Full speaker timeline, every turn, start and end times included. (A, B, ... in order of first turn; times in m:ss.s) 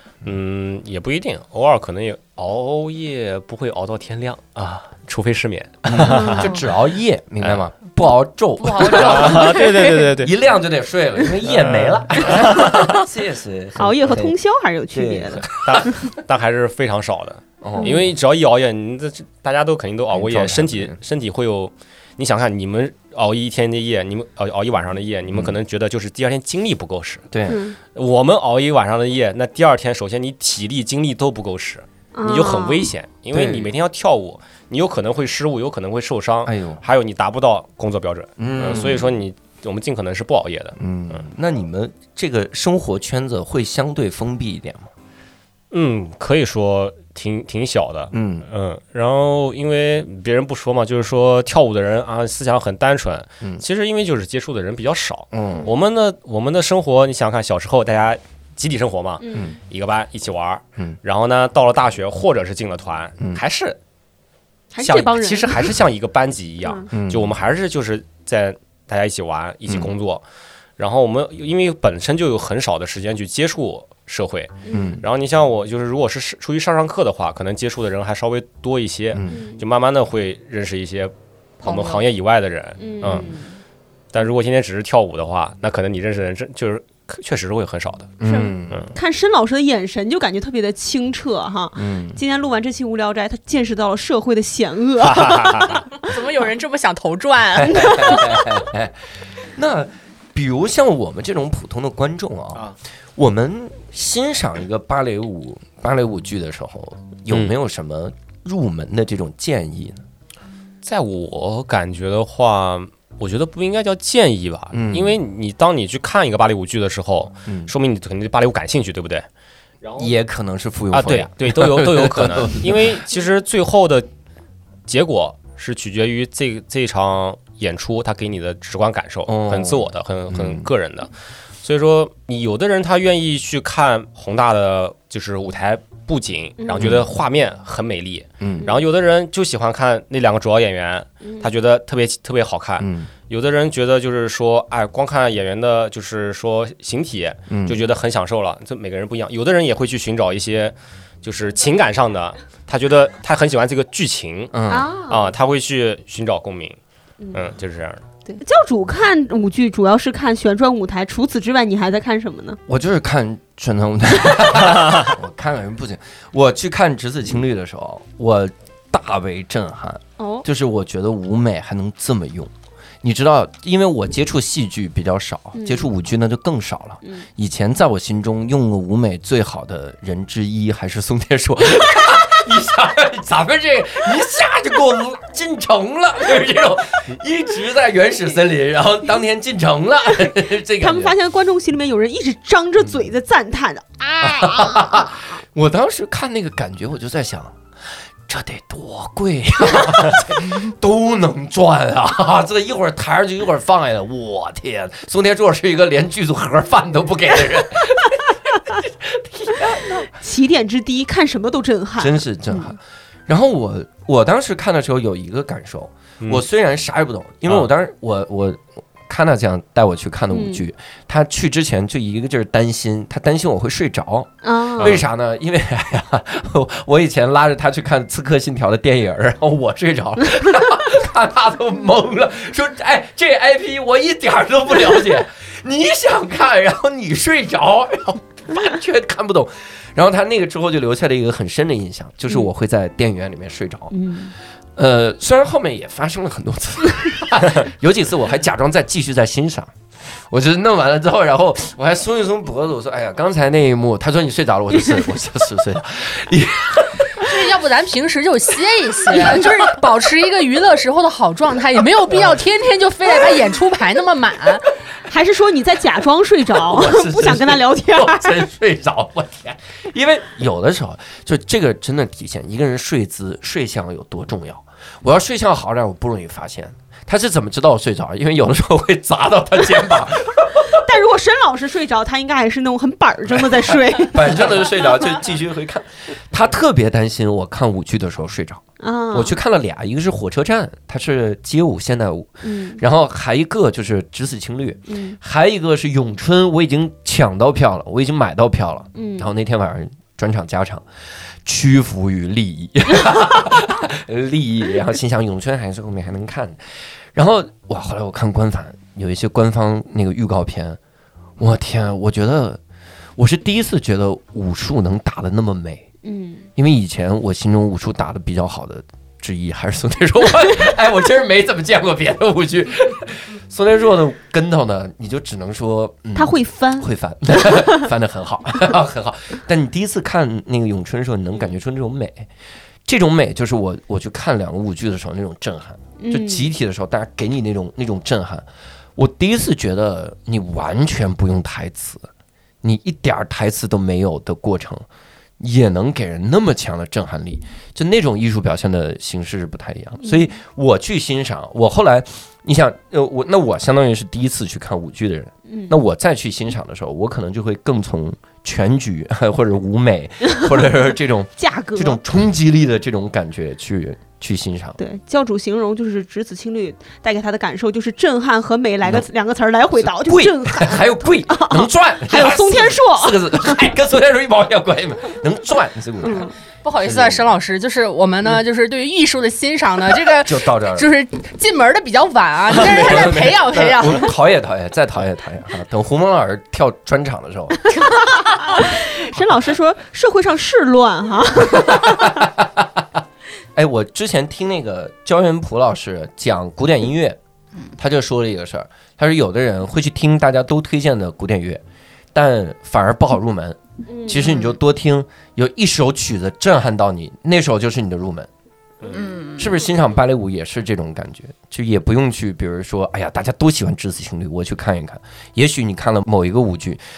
0:00.2-0:06.5 A
0:05.9-0:14.4 B
0:06.1-0:06.4 C
0:06.4-0:06.6 D
0:08.6-0:10.1 D
0:08.8-0:10.3 A
0:11.5-0:12.8 A
0:13.8-0:15.5 C
0:14.9-0:16.0 B
0:15.6-0:27.3 A
0:17.6-0:18.1 B
0:20.1-0:21.0 B
0:27.3-0:27.6 B
0:27.5-0:27.8 C
0:27.9-0:41.2 A
0:32.2-0:32.9 C
0:33.3-0:33.7 B
0:36.4-0:36.8 B
0:38.4-0:39.1 B
0:40.8-0:44.9 B
0:45.7-1:03.8 A
0:48.1-0:48.5 B
0:55.3-0:55.7 B
0:59.2-0:59.6 C
1:04.7-1:05.8 C
1:04.8-1:10.2 A
1:06.9-1:07.4 B
1:10.8-1:23.3 A
1:14.7-1:15.0 C
1:14.7-1:15.0 B
1:19.1-1:19.4 B
1:19.3-1:19.6 C
1:21.6-1:22.0 D
1:22.8-1:23.6 C
1:24.1-1:28.1 A
1:28.2-1:28.9 B
1:28.2-1:35.9 C
1:31.8-1:32.2 B
1:35.0-1:35.8 A
1:36.0-1:38.5 E
1:37.6-1:42.6 B
1:43.2-1:50.0 B
1:50.8-1:59.3 A
1:54.7-1:55.2 B
1:57.5-1:57.7 B
1:59.8-2:00.1 A
2:00.0-2:03.0 B
2:00.9-2:04.1 A
2:04.9-2:11.1 A
2:09.3-2:10.7 B
2:11.6-2:36.8 A
2:16.6-2:16.9 C
2:16.8-2:17.1 B
2:18.4-2:18.7 B
2:21.2-2:21.5 C
2:22.8-2:23.1 B
2:27.5-2:27.8 B
2:34.5-2:34.9 B
2:34.7-2:35.3 C
2:37.3-2:38.0 A
2:38.3-2:42.6 C
2:42.7-2:52.5 B
2:44.8-2:45.1 A
2:50.2-2:50.5 C
2:53.0-3:11.2 B
2:55.5-2:55.9 C
2:57.0-2:57.3 C
3:10.8-3:15.1 C
3:14.2-3:17.6 B
3:18.3-3:30.1 B
3:30.0-3:32.7 C
3:32.0-4:04.0 B
3:40.3-3:40.6 C
3:44.4-3:44.9 C
3:44.8-3:45.0 A
4:03.9-4:04.3 C
4:04.8-4:09.7 B
4:10.3-4:17.4 B
4:17.2-4:24.7 E
4:25.1-4:28.4 C
4:26.6-4:40.8 B
4:40.7-4:44.7 C
4:43.4-5:00.9 B
4:48.8-4:49.4 C
4:52.4-4:52.8 C
4:54.9-4:55.2 C
4:59.0-4:59.3 C
5:01.4-5:10.8 B
5:11.4-5:12.6 B
5:13.2-5:15.9 B
5:16.0-5:16.5 C
5:16.6-5:32.3 B
5:26.2-5:27.8 C
5:32.9-5:42.1 B
5:36.0-5:36.5 C
5:42.6-5:44.9 B
5:45.4-6:04.8 B
5:50.0-5:50.3 C
5:55.5-5:55.8 C
6:01.4-6:02.0 C
6:04.8-6:13.6 C
6:09.8-6:17.4 B
6:16.0-6:16.3 C
6:16.6-6:24.2 E
6:20.1-6:20.9 B
6:22.6-6:27.7 B
6:27.7-6:32.2 C
6:31.6-6:32.8 B
6:33.6-6:37.2 B
6:37.8-6:41.6 B
6:42.1-6:48.3 B
6:43.9-6:44.4 C
6:44.2-6:44.5 D
6:48.9-6:49.6 D
6:49.4-6:56.8 B